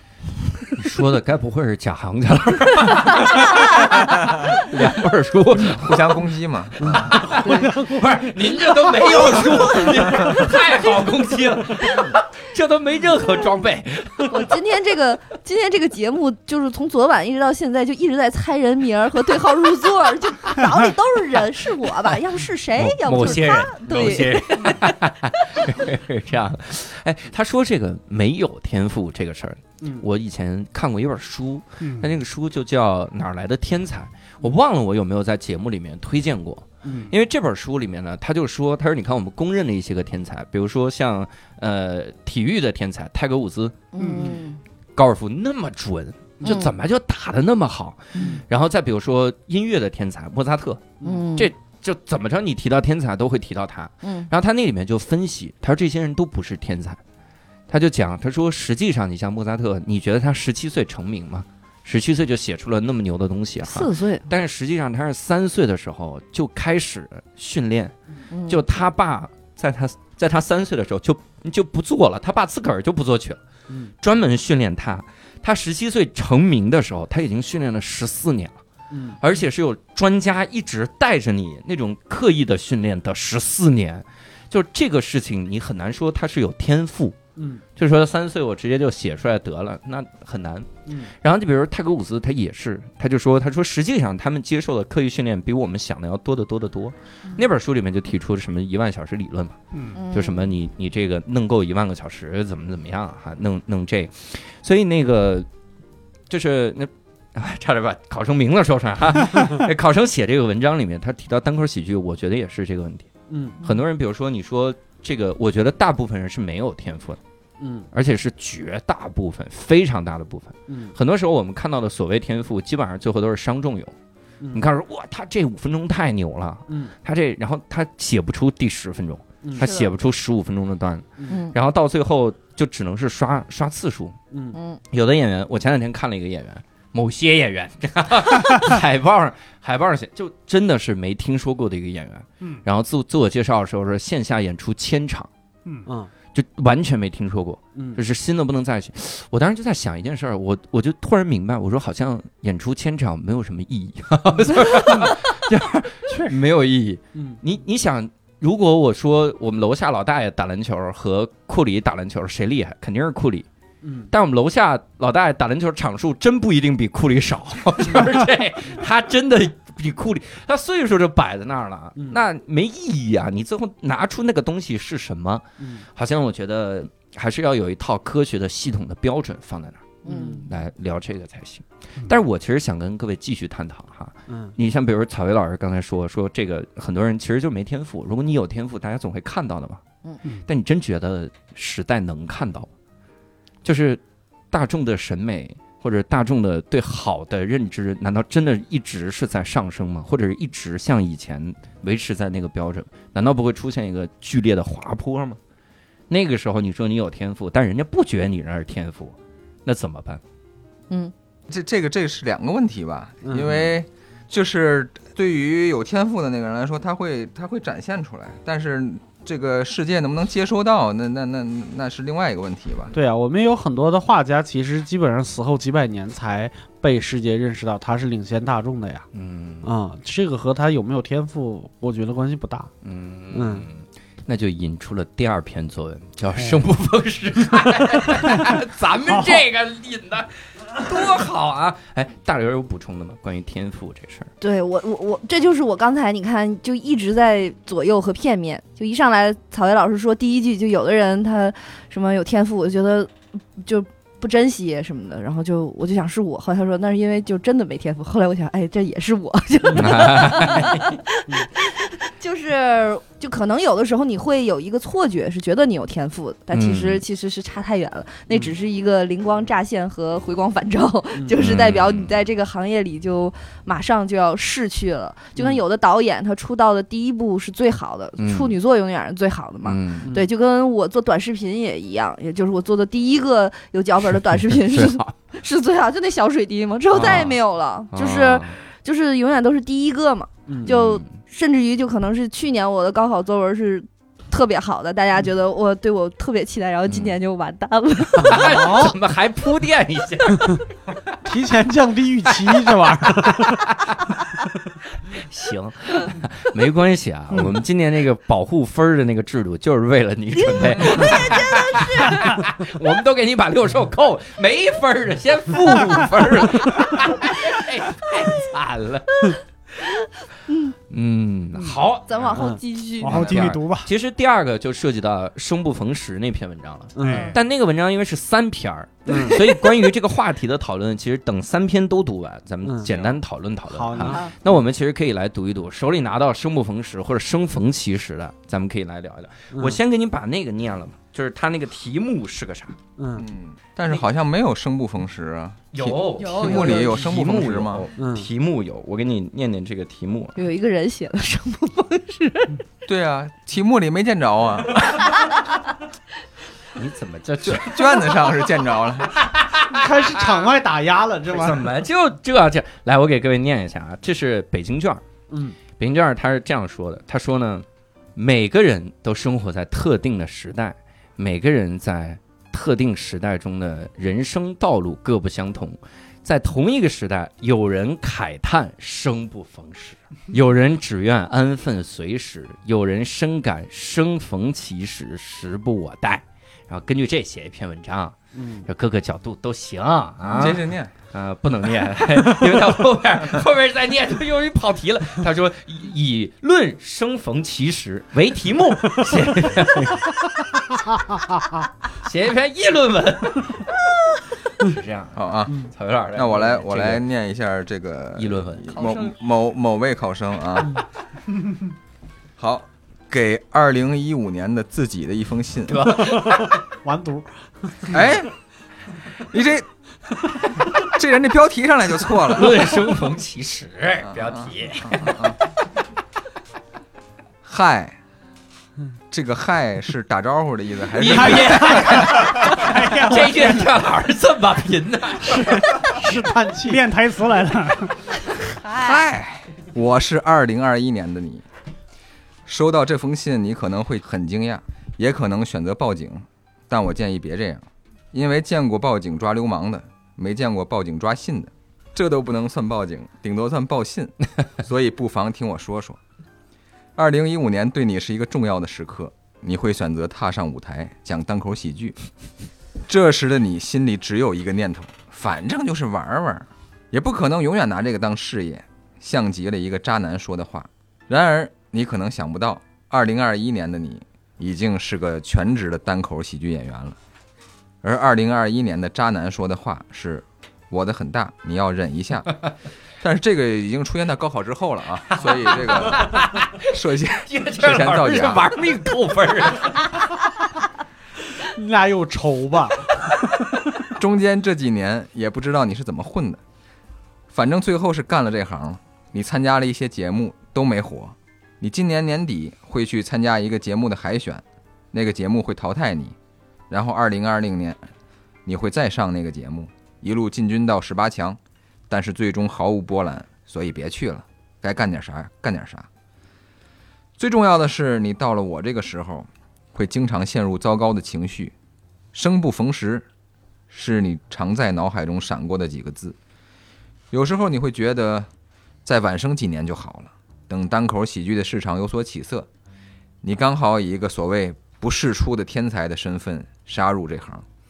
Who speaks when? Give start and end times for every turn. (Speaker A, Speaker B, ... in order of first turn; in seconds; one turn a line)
Speaker A: 0.8-6.2
Speaker B: 4.0-4.5
Speaker B: 5.6-7.3
Speaker C: 6.8-8.0
Speaker A: 6.9-14.6
Speaker D: 7.4-7.8
Speaker D: 8.7-10.6
Speaker D: 14.3-24.9
Speaker A: 22.7-43.9
Speaker C: 29.8-30.1
Speaker E: 31.8-32.1
Speaker C: 36.8-37.1
Speaker D: 43.9-44.6
Speaker E: 44.0-44.4
Speaker A: 44.9-57.0
Speaker D: 46.4-46.7
Speaker D: 48.1-48.4
Speaker C: 51.0-51.3
Speaker D: 51.0-51.5
Speaker D: 54.0-54.3
Speaker A: 57.7-67.9
Speaker D: 63.6-64.3
Speaker D: 68.3-68.6
Speaker A: 68.5-73.4
Speaker A: 74.0-78.6
Speaker C: 78.9-79.2
Speaker A: 79.2-87.2
Speaker C: 87.4-87.6
Speaker A: 87.8-99.6
Speaker C: 90.9-91.1
Speaker E: 99.7-100.0
Speaker D: 99.9-100.5
Speaker A: 100.1-105.5
Speaker A: 106.3-113.1
Speaker C: 113.3-113.6
Speaker A: 113.6-117.2
Speaker C: 117.6-117.9
Speaker A: 117.9-123.9
Speaker C: 120.7-120.9
Speaker A: 124.5-134.2
Speaker C: 126.7-126.9
Speaker C: 129.4-129.7
Speaker D: 129.6-129.9
Speaker C: 131.2-131.4
Speaker D: 131.3-131.6
Speaker C: 134.3-134.6
Speaker D: 134.5-134.8
Speaker A: 134.9-145.3
Speaker C: 145.9-146.1
Speaker A: 146.3-163.5
Speaker C: 147.7-148.0
Speaker C: 157.1-157.4
Speaker C: 163.8-164.1
Speaker A: 164.1-189.8
Speaker C: 175.6-175.8
Speaker D: 180.0-180.5
Speaker C: 180.0-180.5
Speaker C: 184.3-184.5
Speaker A: 190.4-192.7
Speaker A: 193.6-205.4
Speaker A: 206.1-210.2
Speaker B: 211.5-222.9
Speaker C: 213.2-213.7
Speaker C: 222.9-229.1
Speaker A: 229.1-229.7
Speaker C: 229.6-232.7
Speaker A: 232.8-244.3
Speaker C: 233.3-233.7
Speaker E: 239.1-239.4
Speaker D: 244.4-298.5
Speaker C: 259.6-260.6
Speaker A: 259.7-261.0
Speaker A: 266.5-267.0
Speaker C: 268.3-268.6
Speaker C: 271.1-271.4
Speaker A: 271.4-272.3
Speaker C: 275.4-275.6
Speaker A: 278.2-278.6
Speaker A: 279.6-280.1
Speaker C: 280.0-280.3
Speaker A: 284.3-285.1
Speaker A: 286.9-287.4
Speaker A: 287.9-288.6
Speaker C: 290.5-290.7
Speaker A: 290.6-291.1
Speaker A: 296.9-297.1
Speaker C: 298.2-298.9
Speaker A: 298.2-300.6
Speaker C: 301.2-303.7
Speaker A: 303.4-304.1
Speaker A: 305.1-319.2
Speaker D: 310.5-312.2
Speaker D: 320.5-320.7
Speaker A: 320.9-322.5
Speaker D: 322.1-323.5
Speaker C: 322.4-322.6
Speaker E: 323.0-323.9
Speaker A: 323.1-342.8
Speaker C: 326.9-327.3
Speaker E: 327.1-327.3
Speaker D: 327.1-327.4
Speaker C: 329.1-329.4
Speaker D: 329.1-329.6
Speaker C: 332.6-333.2
Speaker C: 333.7-334.4
Speaker D: 333.9-334.3
Speaker C: 339.5-339.8
Speaker C: 343.0-343.2
Speaker B: 343.2-347.9
Speaker A: 345.7-350.4
Speaker D: 346.1-347.0
Speaker C: 348.0-348.3
Speaker D: 350.4-352.6
Speaker B: 352.9-355.0
Speaker A: 356.7-358.1
Speaker B: 357.4-359.2
Speaker A: 359.2-359.9
Speaker C: 359.6-361.7
Speaker A: 361.3-365.0
Speaker C: 365.3-365.6
Speaker A: 365.8-400.2
Speaker C: 388.3-388.6
Speaker B: 390.3-390.9
Speaker A: 401.9-403.7
Speaker A: 404.6-407.0
Speaker B: 405.1-410.8
Speaker A: 408.1-408.8
Speaker D: 408.7-409.1
Speaker B: 412.4-415.9
Speaker A: 415.6-416.6
Speaker C: 416.0-417.9
Speaker B: 417.9-418.3
Speaker B: 419.3-419.7
Speaker B: 420.8-422.8
Speaker A: 422.3-425.3
Speaker B: 424.0-425.4
Speaker B: 427.4-427.9
Speaker B: 429.1-432.2
Speaker A: 430.9-436.0
Speaker C: 431.4-433.6
Speaker E: 432.8-433.2
Speaker C: 435.2-436.9
Speaker E: 436.6-437.9
Speaker D: 438.6-439.0
Speaker B: 438.7-441.4
Speaker B: 442.4-456.0
Speaker B: 456.9-461.9
Speaker B: 462.9-477.0
Speaker B: 477.8-482.4
Speaker B: 483.0-488.5
Speaker A: 485.2-486.6
Speaker A: 487.3-490.0
Speaker C: 491.4-493.3
Speaker B: 493.9-496.4
Speaker B: 497.3-506.1
Speaker B: 506.7-507.8
Speaker B: 508.4-515.9
Speaker B: 517.2-521.5
Speaker B: 522.1-523.0
Speaker B: 523.7-526.1
Speaker B: 527.1-528.3
Speaker B: 528.8-532.5
Speaker B: 533.2-537.4